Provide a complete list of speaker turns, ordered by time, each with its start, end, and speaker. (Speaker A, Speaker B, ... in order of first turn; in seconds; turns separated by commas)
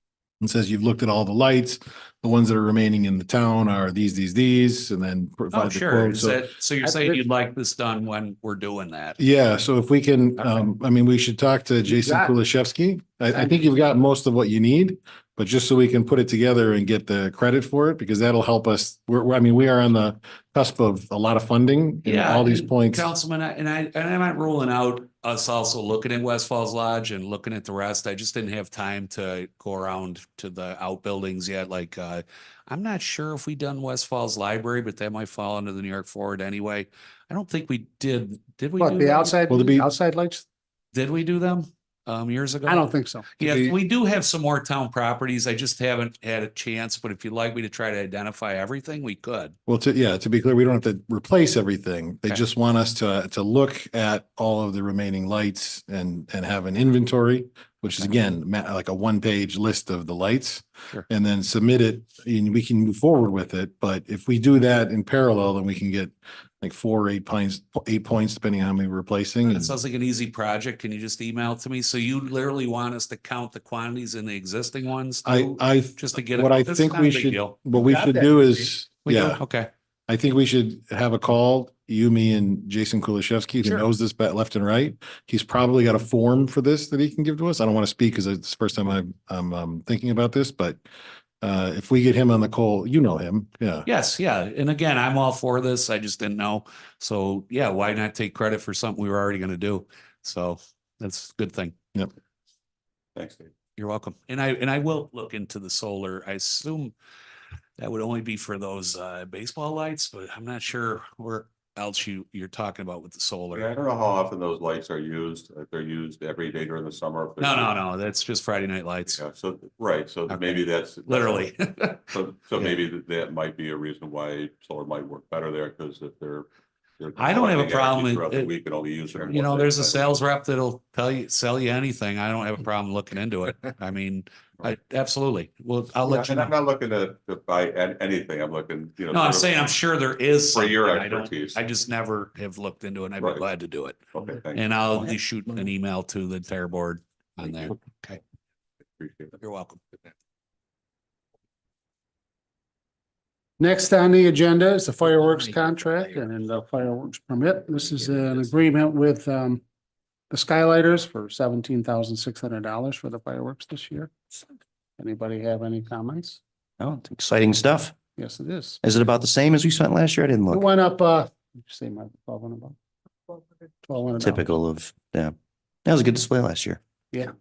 Speaker A: 0.4-6.4, Speaker B: 5.5-9.2, Speaker C: 6.8-7.2, Speaker A: 9.2-23.1, Speaker B: 10.4-10.7, Speaker C: 11.9-12.3, Speaker C: 13.3-13.7, Speaker B: 22.1-39.4, Speaker C: 38.8-40.4, Speaker A: 39.5-39.9, Speaker B: 40.9-49.6, Speaker C: 42.7-43.3, Speaker A: 43.4-43.8, Speaker A: 49.7-69.8, Speaker B: 69.5-77.6, Speaker A: 75.2-79.4, Speaker C: 77.8-78.5, Speaker B: 79.1-79.7, Speaker A: 80.1-90.8, Speaker B: 83.6-83.9, Speaker A: 91.4-93.9, Speaker B: 93.9-101.8, Speaker D: 103.2-103.5, Speaker B: 103.8-106.9, Speaker B: 107.8-113.7, Speaker D: 113.5-117.8, Speaker B: 117.4-119.2, Speaker D: 119.1-121.5, Speaker B: 120.3-122.8, Speaker D: 122.1-126.5, Speaker D: 127.0-130.2, Speaker B: 127.2-128.5, Speaker B: 129.2-136.5, Speaker D: 136.1-139.6, Speaker B: 139.1-144.0, Speaker D: 140.5-141.6, Speaker D: 143.2-143.4, Speaker D: 144.1-144.7, Speaker B: 144.5-148.2, Speaker D: 149.0-149.4, Speaker B: 149.4-149.8, Speaker C: 153.6-159.6, Speaker C: 160.3-164.1, Speaker C: 165.0-166.4, Speaker E: 166.8-168.0, Speaker C: 168.2-168.8, Speaker E: 168.8-170.6, Speaker C: 170.5-172.8, Speaker C: 173.3-174.4, Speaker E: 174.2-176.8